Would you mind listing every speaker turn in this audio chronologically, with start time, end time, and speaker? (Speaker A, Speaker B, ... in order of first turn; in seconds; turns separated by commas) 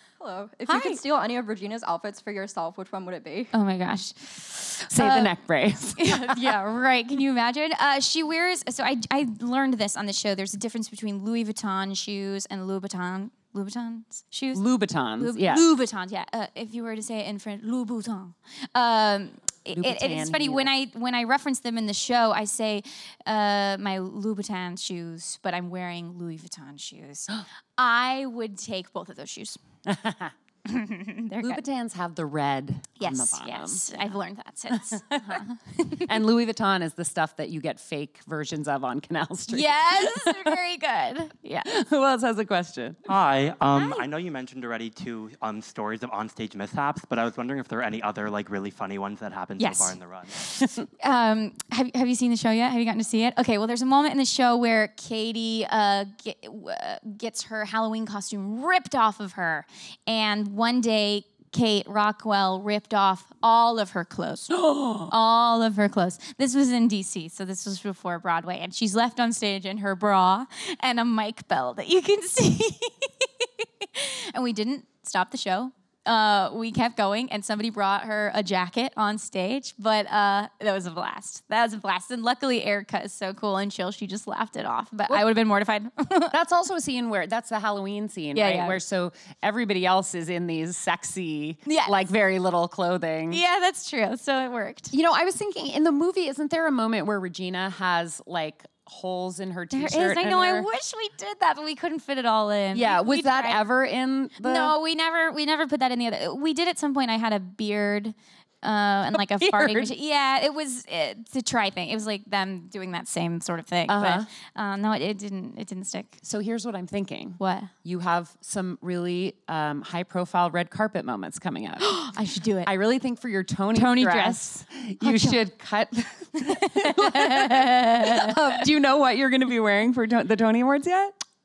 Speaker A: 0.2-3.5, Speaker B: 0.7-1.0, Speaker B: 3.5-5.3, Speaker C: 4.9-6.6, Speaker B: 5.9-14.6, Speaker C: 14.5-15.6, Speaker B: 15.2-29.6, Speaker C: 19.7-20.7, Speaker C: 29.9-30.3, Speaker B: 30.6-31.6, Speaker C: 31.4-33.9, Speaker B: 33.0-36.1, Speaker C: 34.7-35.4, Speaker C: 36.0-40.5, Speaker B: 39.5-41.7, Speaker C: 41.6-43.1, Speaker D: 43.1-50.4, Speaker B: 43.7-44.0, Speaker B: 49.6-50.5, Speaker B: 51.0-86.3, Speaker C: 64.5-65.1, Speaker C: 86.3-93.4, Speaker B: 88.3-88.8, Speaker B: 91.7-92.0, Speaker B: 93.3-94.9, Speaker C: 94.9-100.7, Speaker B: 99.7-103.6, Speaker C: 102.7-104.7, Speaker B: 104.4-116.2, Speaker C: 109.1-109.9, Speaker C: 113.9-114.2, Speaker C: 116.2-121.9, Speaker B: 117.4-117.7, Speaker B: 121.8-122.7, Speaker C: 122.6-131.2, Speaker B: 123.7-125.4, Speaker B: 126.4-128.6